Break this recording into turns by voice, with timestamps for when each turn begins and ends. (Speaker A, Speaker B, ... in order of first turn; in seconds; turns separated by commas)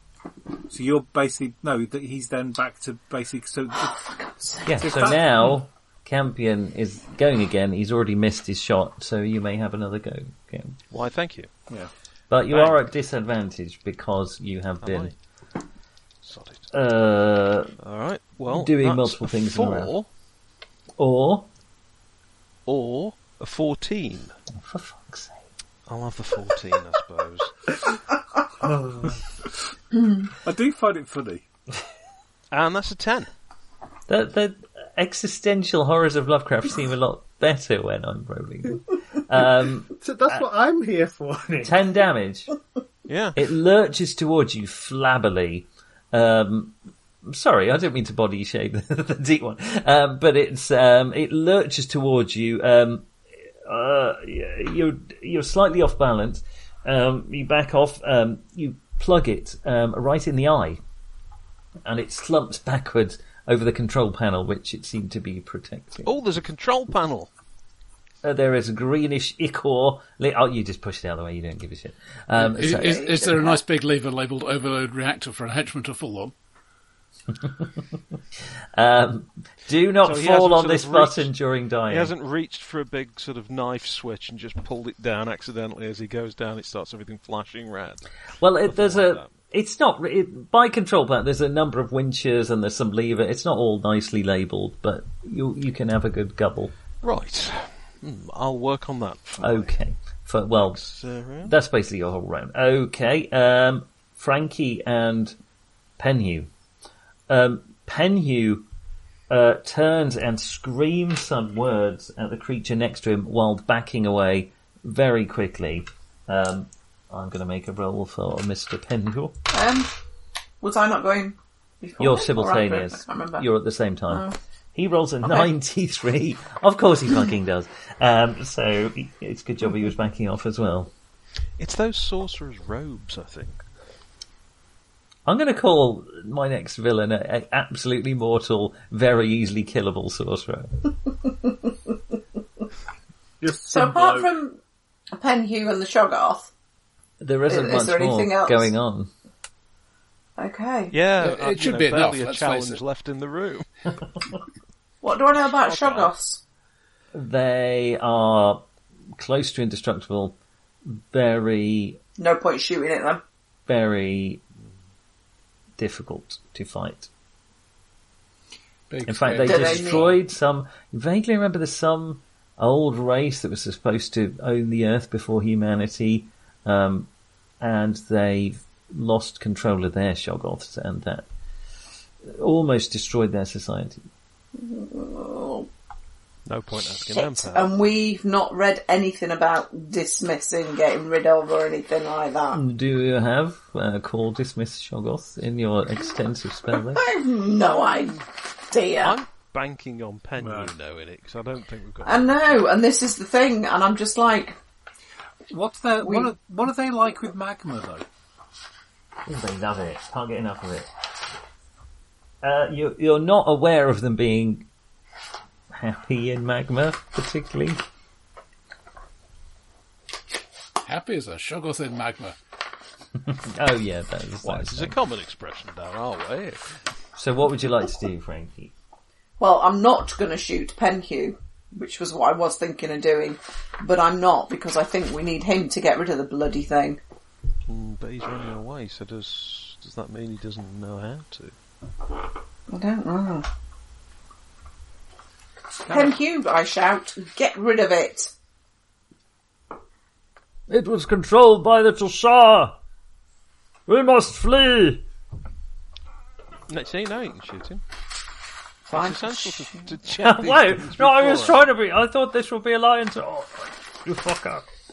Speaker A: 0.7-3.9, Speaker B: 3.9-4.8, Speaker C: 4.7-10.8, Speaker A: 4.8-5.3, Speaker D: 10.9-11.5, Speaker C: 12.3-15.1, Speaker D: 12.5-12.8, Speaker D: 14.8-15.2, Speaker D: 16.2-16.7, Speaker C: 16.7-17.7, Speaker D: 17.8-20.1, Speaker C: 18.5-19.9, Speaker C: 21.0-21.5, Speaker D: 22.6-24.3, Speaker C: 24.6-25.4, Speaker D: 25.9-27.7, Speaker A: 30.4-31.4, Speaker D: 32.5-33.3, Speaker C: 34.1-40.4, Speaker E: 40.0-41.7, Speaker C: 41.6-42.5, Speaker D: 43.1-43.4, Speaker C: 43.3-53.1, Speaker C: 53.6-60.8, Speaker C: 61.8-66.1, Speaker D: 66.0-67.3, Speaker C: 68.2-73.1, Speaker F: 72.4-76.3, Speaker B: 72.7-73.6, Speaker C: 77.4-77.7, Speaker C: 78.7-82.1, Speaker D: 80.0-81.3, Speaker D: 81.9-88.1, Speaker C: 88.4-96.7, Speaker D: 88.7-89.3, Speaker D: 97.0-99.7, Speaker C: 99.4-100.8, Speaker D: 100.5-101.5, Speaker C: 101.4-105.3, Speaker C: 106.0-106.5, Speaker C: 107.3-108.7, Speaker C: 109.3-119.3, Speaker B: 119.5-119.9, Speaker B: 120.6-123.5, Speaker C: 122.0-130.9, Speaker B: 124.1-124.3, Speaker D: 131.6-133.6, Speaker C: 135.2-140.7, Speaker E: 143.4-144.3, Speaker B: 143.7-144.6, Speaker B: 145.1-146.5, Speaker C: 147.2-149.1, Speaker B: 147.5-148.7, Speaker B: 150.4-150.9, Speaker D: 150.9-153.7, Speaker F: 151.2-152.8, Speaker B: 155.0-156.4, Speaker D: 155.6-156.1, Speaker C: 157.1-158.6, Speaker C: 159.2-162.0, Speaker B: 162.2-163.2, Speaker C: 163.7-164.4, Speaker C: 165.8-167.1, Speaker F: 168.9-170.1, Speaker C: 169.1-177.1, Speaker B: 169.4-170.1, Speaker C: 177.6-181.3, Speaker C: 182.2-184.1, Speaker B: 184.6-185.7, Speaker D: 186.4-187.8, Speaker B: 187.1-192.6, Speaker C: 192.5-197.0, Speaker B: 196.9-199.2, Speaker D: 199.0-202.6, Speaker A: 200.4-200.7, Speaker B: 202.0-204.6, Speaker A: 205.5-208.0, Speaker B: 206.0-206.3, Speaker C: 209.2-210.9, Speaker C: 212.4-214.7, Speaker C: 215.7-217.8, Speaker F: 220.8-222.3, Speaker C: 223.2-224.9, Speaker D: 224.4-226.8, Speaker C: 227.2-228.7, Speaker B: 229.4-237.0, Speaker D: 237.7-241.5, Speaker B: 242.7-243.5, Speaker A: 245.8-246.2, Speaker B: 245.9-248.3, Speaker C: 250.7-252.8, Speaker C: 253.9-255.0, Speaker D: 256.7-257.8, Speaker B: 258.9-259.9, Speaker D: 258.9-261.6, Speaker C: 260.2-264.7